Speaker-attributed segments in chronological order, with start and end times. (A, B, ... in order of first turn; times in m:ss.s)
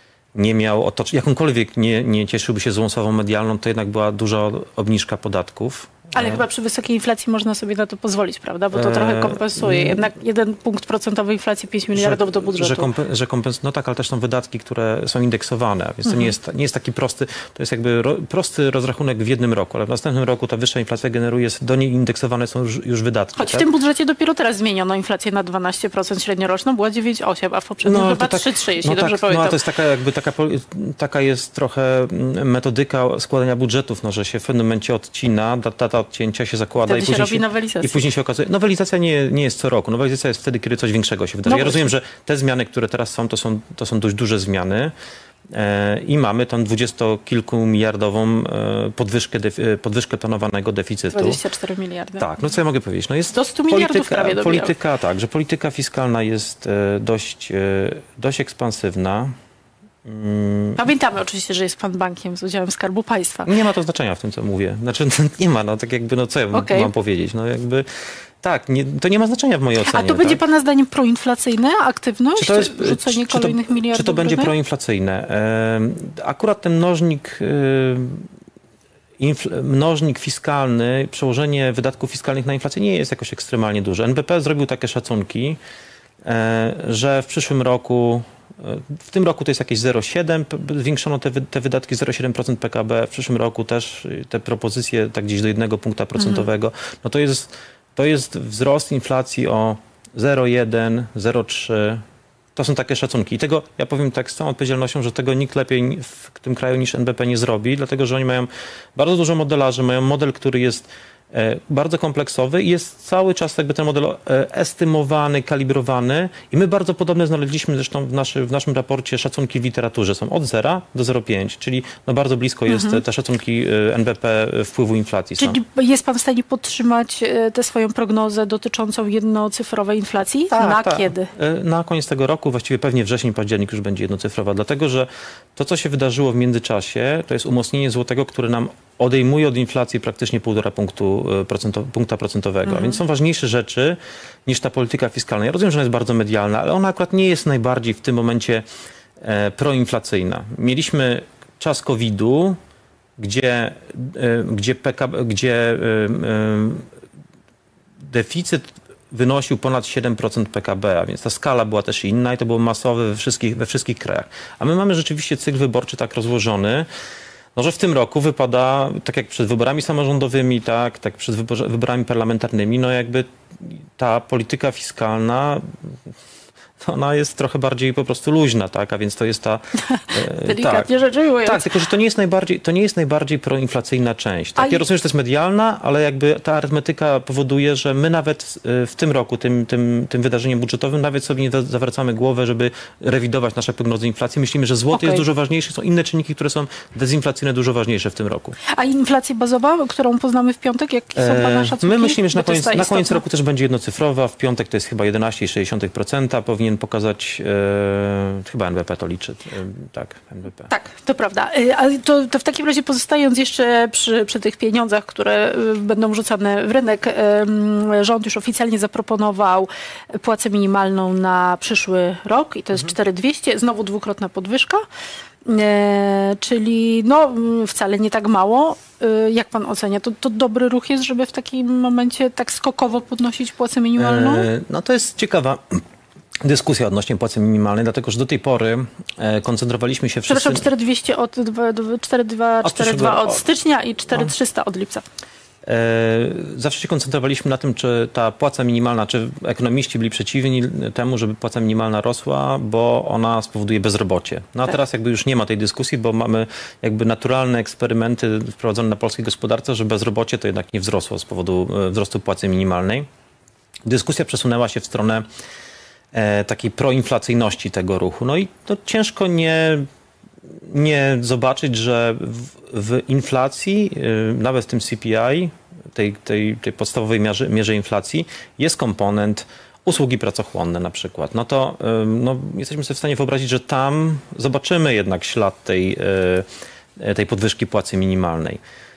0:00.3-0:06.4 A
0:06.1-0:12.9 B
0:08.7-0:10.1 A
0:11.9-0:23.6 A
0:16.1-0:16.3 B
0:23.4-0:29.6 B
0:27.8-0:44.9 A
0:36.8-0:38.0 B
0:41.4-0:41.9 B
0:45.5-0:51.4 A
0:51.1-0:52.3 B
0:52.2-0:59.3 A
0:53.3-0:54.7 B
1:00.0-1:00.8 A
1:00.8-1:03.5 B
1:03.4-1:10.4 A
1:06.5-1:06.9 B
1:09.8-1:14.5 B
1:12.4-1:18.3 A
1:19.2-1:25.6 A
1:26.2-1:42.0 A
1:36.2-1:36.5 B
1:42.5-2:05.6 A
2:02.7-2:03.0 B
2:05.4-2:11.3 B
2:10.5-2:28.6 A
2:22.6-2:23.0 B
2:29.2-2:32.6 A
2:33.2-2:36.9 A
2:38.0-2:46.9 A
2:47.5-2:56.0 A
2:56.8-3:00.9 A
3:00.0-3:01.7 B
3:01.4-3:18.6 A
3:04.6-3:04.8 B
3:14.9-3:15.2 B
3:18.7-3:23.2 B
3:21.2-3:30.7 A
3:30.7-3:44.8 B
3:45.4-3:54.5 B
3:54.0-3:55.8 A
3:56.4-4:00.7 A
4:00.3-4:05.0 B
4:02.6-4:03.4 A
4:05.6-4:23.1 A
4:23.8-4:25.2 A
4:26.1-4:29.8 A
4:30.5-4:48.6 A